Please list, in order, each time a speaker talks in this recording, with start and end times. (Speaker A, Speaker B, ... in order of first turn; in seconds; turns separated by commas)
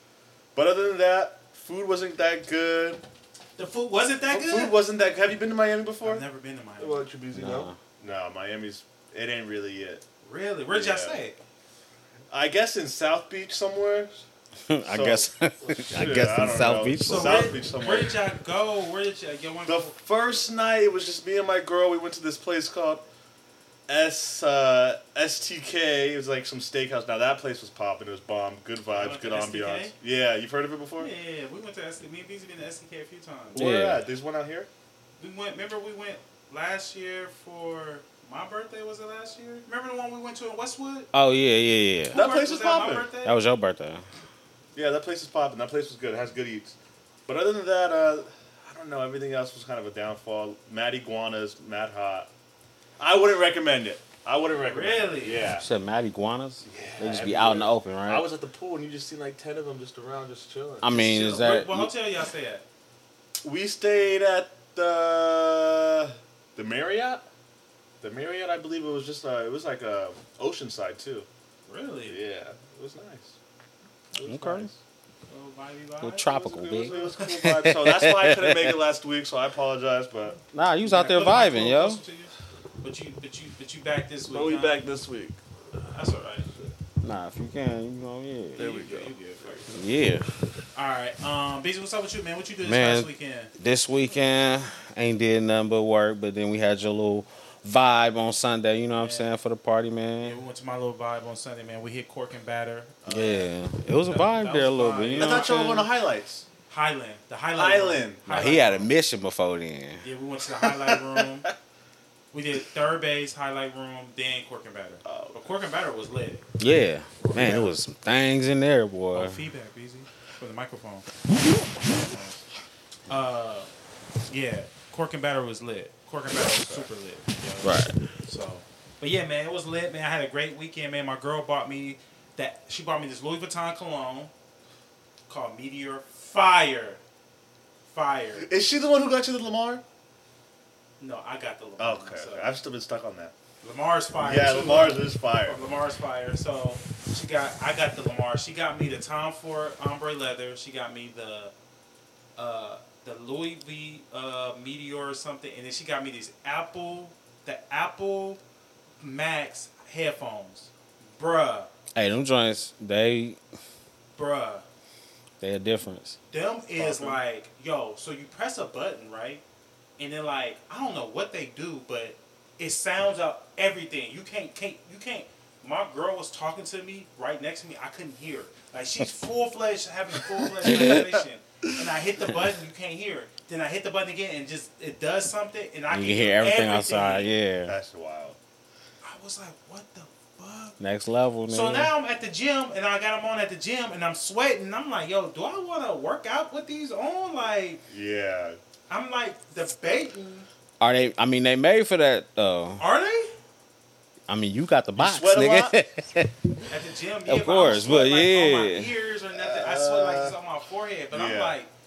Speaker A: 0.6-3.0, Speaker B: 3.6-4.8, Speaker A: 4.3-6.2, Speaker B: 6.0-7.1, Speaker A: 6.8-10.0, Speaker C: 7.3-7.8, Speaker B: 10.2-11.4, Speaker A: 10.7-11.2, Speaker A: 12.3-14.2, Speaker C: 14.7-17.4, Speaker A: 14.8-18.2, Speaker B: 17.1-19.9, Speaker A: 19.7-23.1, Speaker A: 23.9-31.1, Speaker B: 28.9-29.9, Speaker B: 31.0-33.7, Speaker C: 33.5-34.0, Speaker A: 33.5-34.7, Speaker B: 35.2-41.1, Speaker C: 41.1-42.2, Speaker A: 42.1-43.1, Speaker B: 42.1-43.4, Speaker C: 43.2-44.0, Speaker A: 44.8-46.8, Speaker A: 47.3-52.3, Speaker A: 53.0-55.7, Speaker B: 54.5-55.5, Speaker C: 55.5-58.3, Speaker A: 56.7-61.0, Speaker C: 60.8-61.9, Speaker B: 60.9-62.6, Speaker A: 63.4-67.2, Speaker A: 68.0-71.3, Speaker B: 71.7-72.2, Speaker A: 72.1-73.3, Speaker B: 74.1-74.7, Speaker C: 74.2-74.7, Speaker B: 75.3-77.3, Speaker C: 76.0-78.8, Speaker A: 76.2-80.4, Speaker C: 80.5-82.0, Speaker B: 80.8-84.9, Speaker A: 84.3-85.4, Speaker B: 85.8-86.5, Speaker C: 87.0-88.7, Speaker A: 88.6-89.8, Speaker B: 88.6-89.8, Speaker C: 89.7-90.3, Speaker B: 90.7-93.5, Speaker C: 92.6-100.4, Speaker B: 99.0-99.3, Speaker B: 100.2-103.5, Speaker C: 103.1-105.6, Speaker B: 104.1-105.9, Speaker A: 105.1-106.5, Speaker B: 106.7-108.9, Speaker A: 107.6-108.3, Speaker C: 108.3-110.0, Speaker B: 110.0-111.5, Speaker A: 110.6-111.5, Speaker B: 112.3-116.5, Speaker A: 115.0-115.4, Speaker C: 116.6-119.5, Speaker B: 117.2-117.8, Speaker A: 117.4-117.7, Speaker B: 119.1-121.1, Speaker B: 121.8-122.5, Speaker B: 123.1-123.7, Speaker B: 124.3-134.3, Speaker A: 126.3-126.9, Speaker C: 127.6-127.9, Speaker B: 135.3-137.0, Speaker B: 137.9-138.5, Speaker A: 138.4-139.8, Speaker B: 141.0-142.5, Speaker A: 141.8-143.3, Speaker B: 143.6-151.5, Speaker A: 144.2-145.7, Speaker B: 152.4-158.4, Speaker B: 159.0-161.7, Speaker C: 161.9-163.4, Speaker B: 164.2-164.7, Speaker C: 165.4-166.2, Speaker B: 166.3-169.4, Speaker A: 166.8-167.2, Speaker B: 170.0-187.3, Speaker A: 180.5-181.2, Speaker C: 180.7-181.0, Speaker C: 185.9-187.8, Speaker A: 187.7-188.4, Speaker B: 189.0-190.8, Speaker C: 190.8-191.9, Speaker B: 191.5-197.8, Speaker A: 197.9-198.6, Speaker B: 198.9-200.5, Speaker C: 200.8-202.8, Speaker B: 202.8-203.3, Speaker C: 204.3-206.6, Speaker A: 205.0-205.8, Speaker B: 206.7-211.7, Speaker C: 207.3-208.9, Speaker A: 209.3-210.4, Speaker A: 211.1-211.6